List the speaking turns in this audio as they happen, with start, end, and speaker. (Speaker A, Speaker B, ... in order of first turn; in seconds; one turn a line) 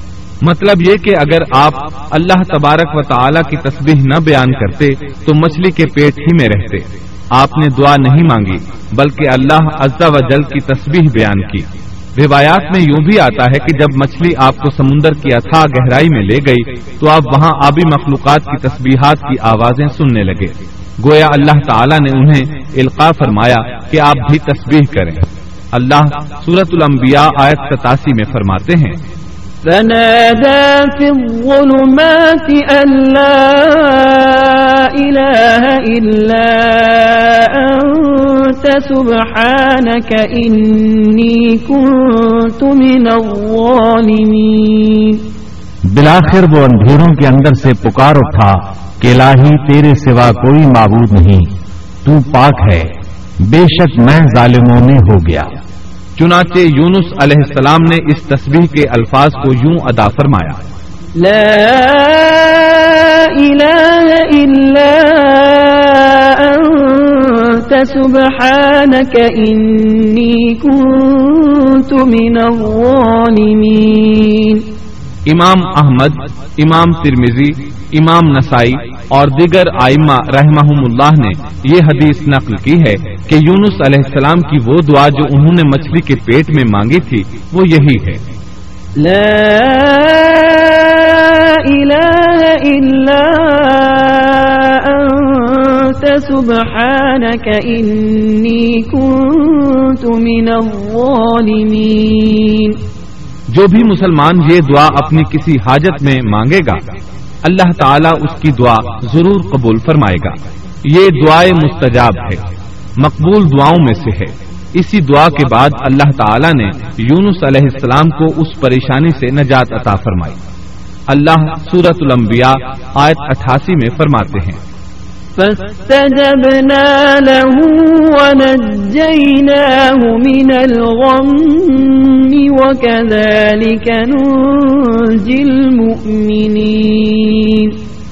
Speaker A: 0.4-29.0
Speaker B: 29.6-45.2
Speaker C: 45.9-51.5
Speaker C: 52.0-52.9
Speaker C: 53.4-55.5
Speaker A: 56.2-60.6
Speaker B: 61.2-74.7
Speaker A: 75.3-88.2
Speaker B: 89.0-102.8
Speaker A: 103.5-106.8
Speaker A: 107.5-112.4
Speaker A: 113.0-120.4
Speaker A: 121.1-124.6
Speaker B: 125.4-137.8